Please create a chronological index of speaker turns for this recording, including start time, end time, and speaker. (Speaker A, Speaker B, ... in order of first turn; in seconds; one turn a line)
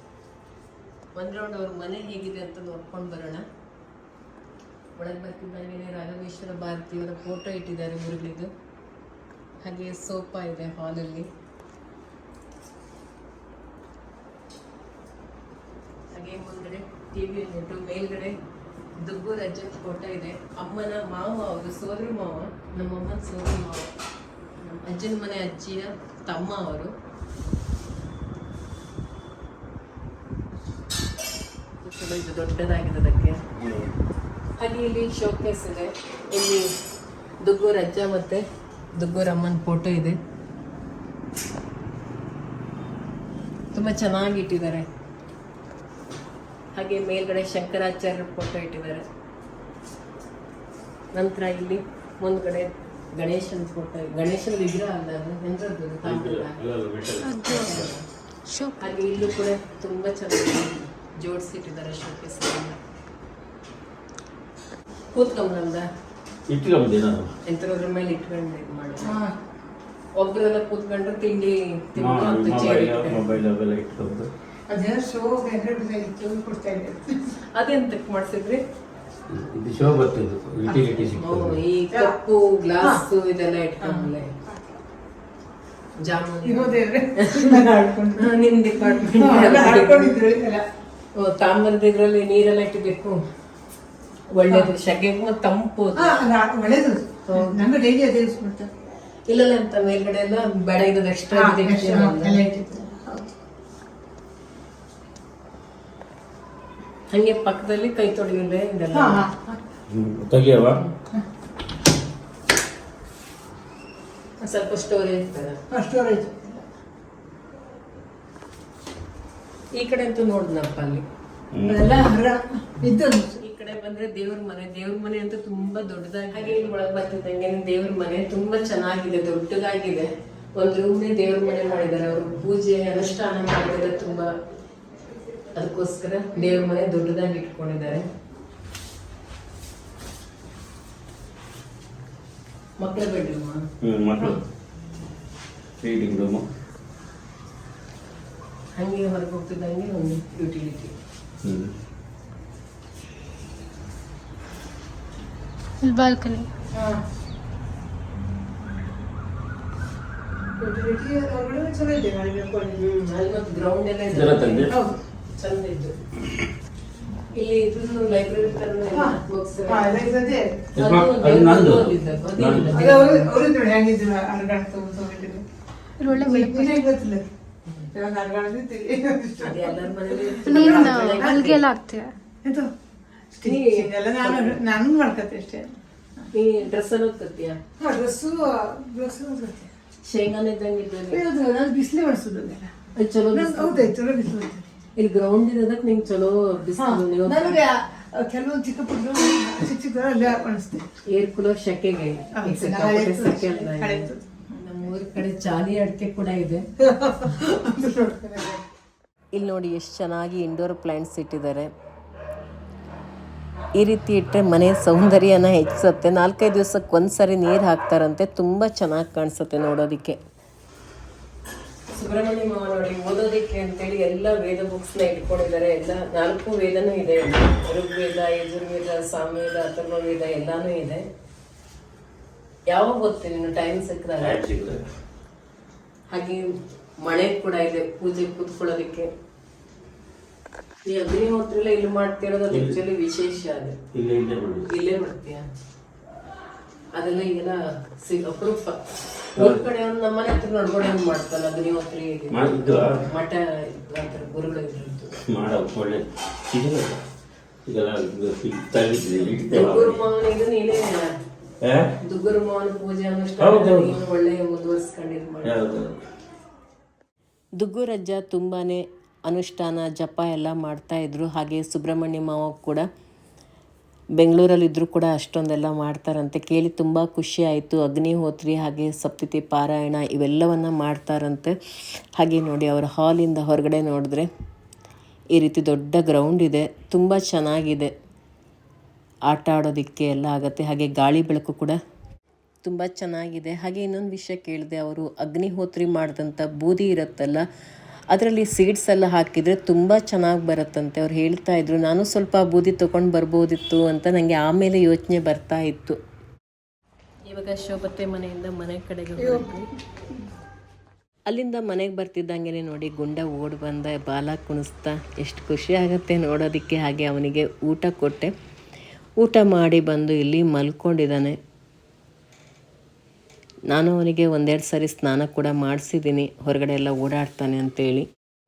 Speaker A: 1.1-3.4
Speaker A: 5.0-8.5
Speaker A: 9.6-11.3
Speaker A: 16.1-18.4
Speaker A: 19.0-23.9
Speaker A: 24.6-26.9
Speaker A: 31.8-33.4
Speaker B: 33.6-33.9
Speaker A: 34.6-36.7
Speaker A: 37.4-38.4
Speaker A: 39.0-40.2
Speaker A: 43.7-44.9
Speaker A: 46.8-49.0
Speaker A: 51.1-56.6
Speaker B: 56.0-57.9
Speaker A: 57.4-58.0
Speaker A: 58.8-62.8
Speaker A: 65.1-65.9
Speaker B: 66.5-67.3
Speaker A: 67.4-69.2
Speaker C: 69.0-69.4
Speaker A: 70.2-73.2
Speaker B: 72.0-74.3
Speaker C: 74.7-77.2
Speaker A: 77.5-78.6
Speaker B: 79.3-81.6
Speaker C: 80.7-80.9
Speaker A: 81.2-84.3
Speaker C: 83.8-84.6
Speaker A: 86.0-87.5
Speaker C: 86.4-88.3
Speaker A: 88.2-90.1
Speaker C: 88.9-90.7
Speaker A: 91.2-93.2
Speaker A: 94.3-96.2
Speaker C: 95.9-98.7
Speaker A: 97.3-97.6
Speaker A: 99.3-102.4
Speaker C: 101.3-103.3
Speaker A: 107.1-109.3
Speaker C: 108.9-109.6
Speaker B: 109.9-110.8
Speaker A: 114.4-115.6
Speaker C: 115.7-116.7
Speaker A: 119.8-121.0
Speaker B: 121.5-121.9
Speaker C: 121.7-123.4
Speaker A: 123.4-134.3
Speaker A: 135.6-138.1
Speaker A: 142.8-143.6
Speaker B: 143.8-144.4
Speaker B: 145.8-146.4
Speaker A: 148.8-150.9
Speaker B: 151.4-151.7
Speaker C: 156.7-157.0
Speaker C: 160.6-162.8
Speaker A: 162.8-164.7
Speaker B: 164.1-164.8
Speaker C: 164.7-165.0
Speaker A: 165.3-165.9
Speaker A: 167.3-170.0
Speaker C: 168.9-170.6
Speaker B: 170.8-172.7
Speaker A: 170.8-173.3
Speaker C: 172.7-175.4
Speaker D: 176.0-176.8
Speaker C: 176.1-177.3
Speaker C: 177.9-181.5
Speaker A: 179.4-181.7
Speaker D: 180.4-182.1
Speaker C: 182.4-182.7
Speaker C: 183.3-185.8
Speaker A: 183.4-184.6
Speaker A: 186.3-187.6
Speaker C: 187.8-189.7
Speaker A: 190.1-191.2
Speaker C: 191.1-192.7
Speaker A: 192.9-193.9
Speaker C: 193.3-194.7
Speaker A: 194.9-197.6
Speaker C: 196.8-200.9
Speaker A: 201.1-204.1
Speaker C: 202.4-204.2
Speaker A: 204.6-206.7
Speaker C: 206.8-208.6
Speaker A: 209.3-211.7
Speaker A: 213.8-220.2
Speaker A: 221.9-231.1
Speaker A: 232.7-234.4
Speaker B: 234.2-234.8
Speaker A: 236.1-236.4
Speaker A: 237.0-239.1
Speaker A: 240.8-243.8
Speaker B: 243.9-244.7
Speaker A: 244.7-245.4
Speaker A: 246.9-255.1
Speaker B: 249.3-249.6
Speaker B: 252.3-253.1
Speaker B: 255.3-257.0
Speaker B: 257.7-260.0
Speaker A: 259.5-261.1
Speaker B: 261.6-261.9
Speaker A: 262.0-265.5
Speaker B: 263.4-264.0
Speaker B: 265.4-266.0
Speaker A: 267.6-272.9
Speaker A: 274.2-281.5
Speaker A: 282.2-284.3
Speaker A: 285.3-287.9
Speaker A: 289.3-291.8
Speaker A: 292.6-297.4
Speaker A: 298.1-306.0
Speaker A: 307.3-309.7
Speaker C: 309.2-309.4
Speaker A: 311.3-318.3
Speaker A: 319.2-321.4
Speaker A: 323.7-328.1